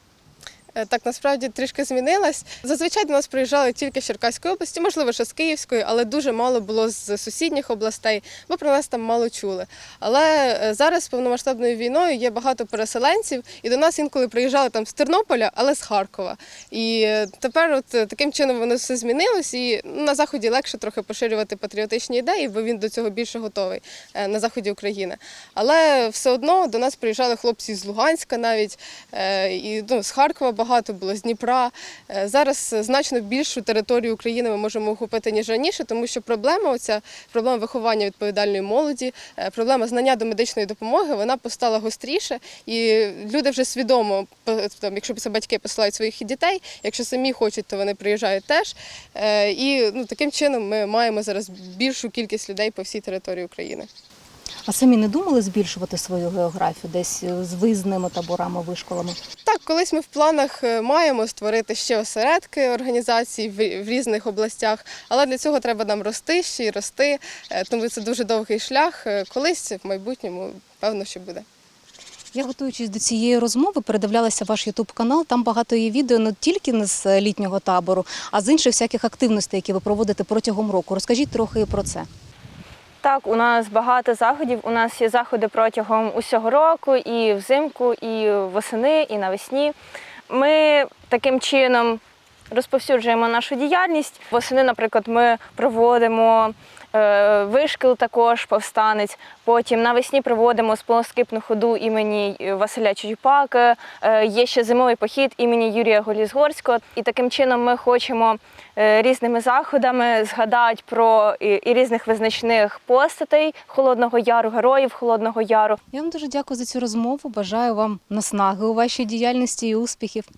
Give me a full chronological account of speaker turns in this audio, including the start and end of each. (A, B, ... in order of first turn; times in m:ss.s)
0:00.8-0:53.9 A
0:54.7-0:59.2 B
0:59.4-1:11.4 A
1:12.3-1:22.1 B
1:23.0-1:29.7 C
1:30.3-1:55.8 C
1:55.9-2:00.3 B